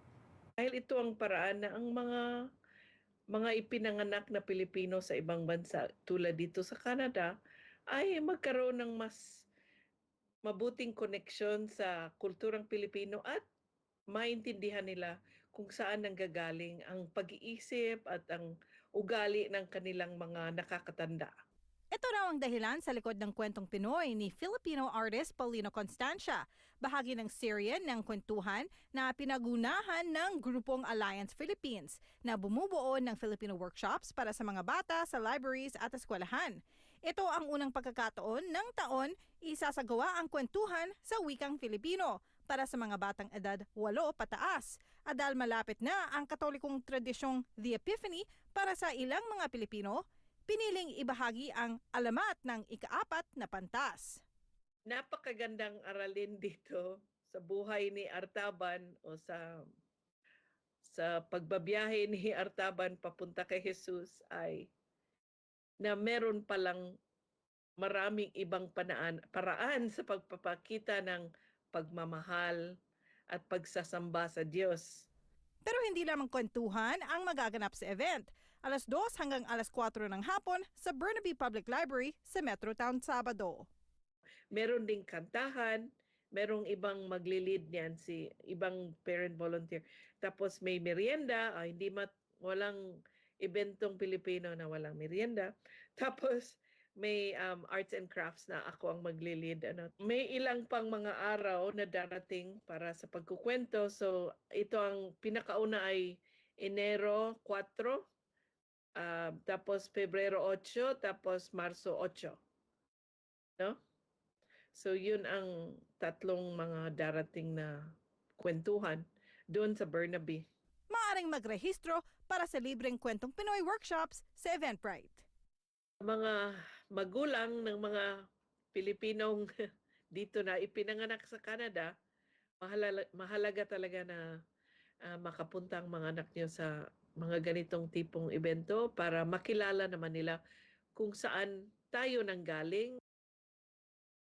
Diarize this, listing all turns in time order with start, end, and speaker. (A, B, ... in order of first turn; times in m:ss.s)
0:00.6-0:02.2 A
0:03.3-0:07.3 A
0:07.9-0:09.2 A
0:10.5-0:13.4 A
0:14.1-0:21.3 A
0:21.9-0:54.2 B
0:54.9-0:59.6 A
1:00.8-1:04.7 A
1:05.8-1:06.8 A
1:07.8-1:12.6 A
1:13.3-1:15.1 A
1:15.6-1:23.7 B
1:24.5-1:32.8 A
1:33.4-1:48.0 A
1:49.0-1:52.4 A
1:54.7-1:57.7 A
1:58.4-2:00.4 A
2:00.9-2:05.3 B
2:06.0-2:08.1 A
2:08.7-2:09.4 A
2:10.1-2:11.9 A
2:12.6-2:14.2 A
2:15.0-2:20.4 A
2:21.0-2:23.0 A